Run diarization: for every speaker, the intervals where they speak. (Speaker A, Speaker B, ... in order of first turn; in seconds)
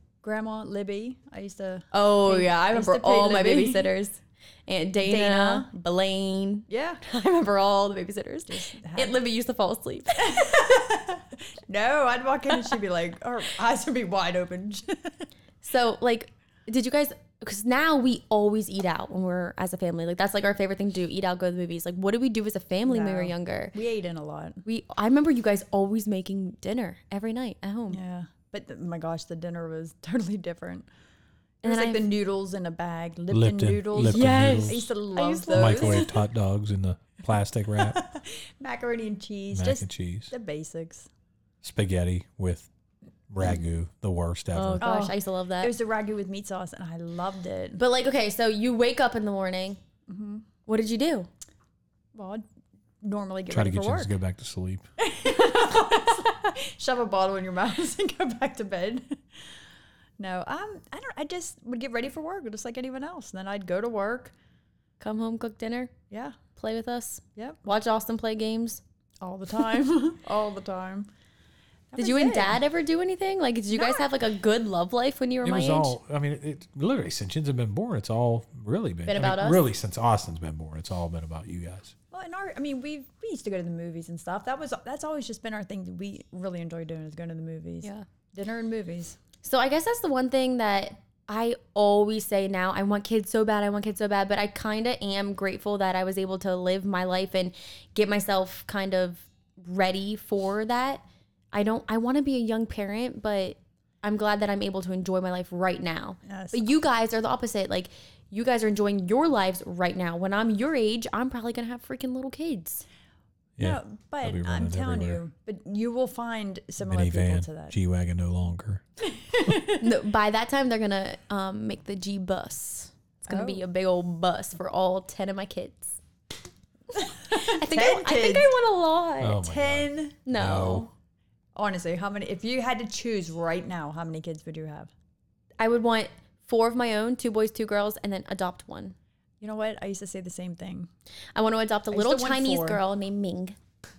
Speaker A: 0.2-3.9, 5.0-5.7, 6.7-7.0, 8.5-9.2, 10.2-15.2, 22.9-24.6, 27.9-30.9, 31.6-36.1, 37.8-41.1, 44.8-47.8, 50.1-50.5, 52.1-52.5, 53.0-54.1, 55.0-59.2, 60.2-64.3, 66.1-66.4, 67.4-67.6, 69.2-71.1, 71.9-72.6, 73.8-74.1, 82.1-89.2, 106.3-106.7, 113.6-117.8, 119.1-119.9, 123.3-123.6, 127.2-128.5, 129.4-130.2, 131.6-134.9, 139.4-140.9, 141.9-142.8
Speaker B: 1.9-10.5, 15.6-23.8, 24.6-28.0, 31.6-32.1, 34.0-36.1, 44.5-45.7, 47.8-49.8, 50.7-51.3, 65.0-65.9, 66.5-68.8, 72.0-76.0, 79.1-79.6, 89.4-101.0, 101.5-112.8, 119.8-126.0, 127.0-129.4, 130.3-130.9, 135.6-138.9, 141.3-143.6
Speaker C: 33.3-34.9, 35.5-38.0, 39.5-40.3, 41.6-42.7, 43.3-44.9, 53.5-54.8, 75.4-81.9, 113.6-115.2, 116.8-118.8, 129.2-130.9